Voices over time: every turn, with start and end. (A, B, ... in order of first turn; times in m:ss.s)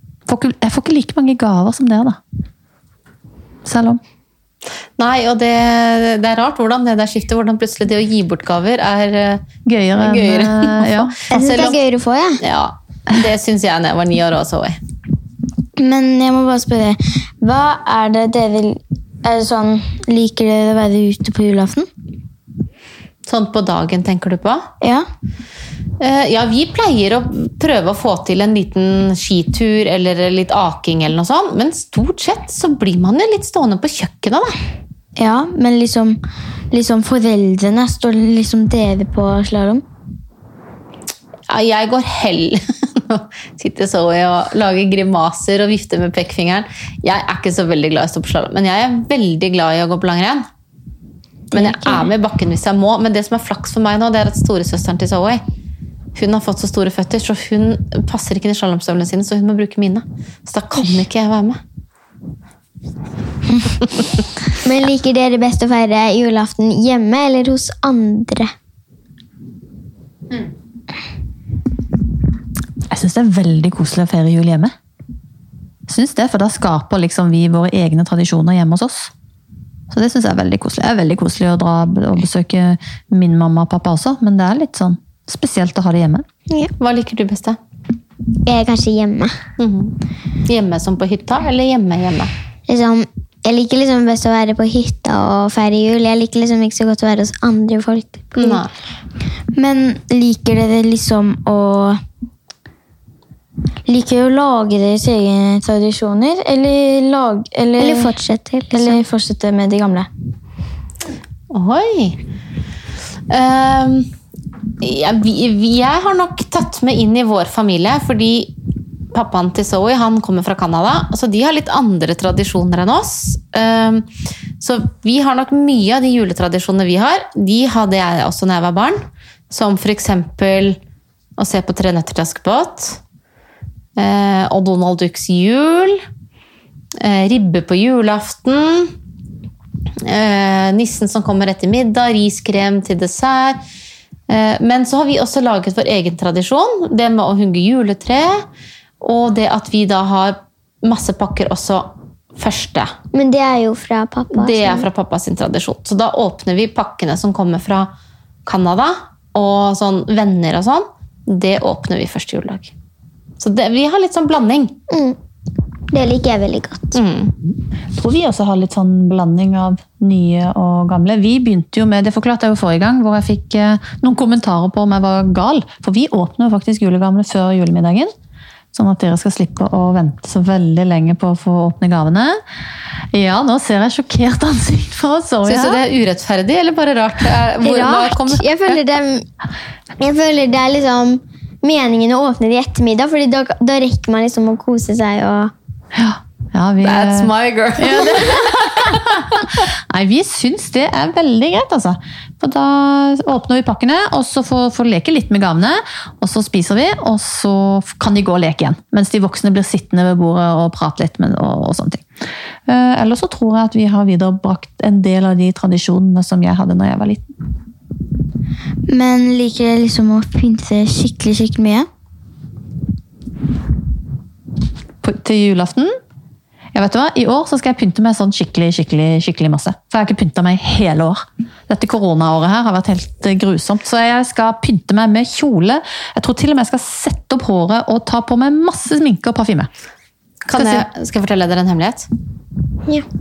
0:00.3-0:02.2 A
0:03.6-0:04.0 A
0:05.0-0:09.4 B
0:09.6-0:11.2 A
0:10.0-0:11.8 B
0:11.3-0:12.4 C
0:12.4-0:14.8 B
0:15.8-0:21.9 D
0:23.2-0:24.6 B
0:26.0-0:34.6 B
0:35.2-0:36.2 D
0:36.7-0:39.8 D
0:41.5-0:50.4 B
0:51.5-0:55.4 B
0:56.1-1:01.6 B
1:04.6-1:08.5 C
1:12.9-1:14.7 A
1:15.9-1:19.1 A
1:19.9-1:26.2 A
1:26.8-1:27.6 B
1:28.4-1:29.3 C
1:29.6-1:32.3 B
1:32.7-1:38.6 C
1:38.3-1:38.7 B
1:39.5-1:42.0 D
1:43.8-1:48.1 D
1:47.8-1:49.0 C
1:48.7-1:50.1 D
1:51.5-1:52.2 B
1:53.3-1:54.1 B
1:54.8-1:58.5 B
1:59.1-2:04.1 B
2:04.6-2:10.8 B
2:11.4-2:13.0 B
2:14.0-2:16.0 B
2:17.0-2:18.9 B
2:20.0-2:23.6 B
2:24.3-2:28.4 B
2:29.0-2:32.9 B
2:33.1-2:34.9 C
2:34.3-2:37.9 B
2:38.4-2:42.7 B
2:43.4-2:44.8 B
2:44.9-2:45.2 C
2:45.9-2:47.0 C
2:46.9-2:47.3 B
2:47.9-2:58.1 A
2:58.7-3:02.4 A
3:03.1-3:05.8 A
3:05.4-3:08.8 B
3:07.6-3:09.2 C
3:10.0-3:15.5 C
3:15.9-3:32.0 A
3:16.8-3:19.2 B
3:32.7-3:37.2 A
3:38.9-3:41.9 D
3:45.0-3:45.9 A
3:46.7-3:59.7 A
4:00.5-4:02.1 B
4:00.5-4:00.8 A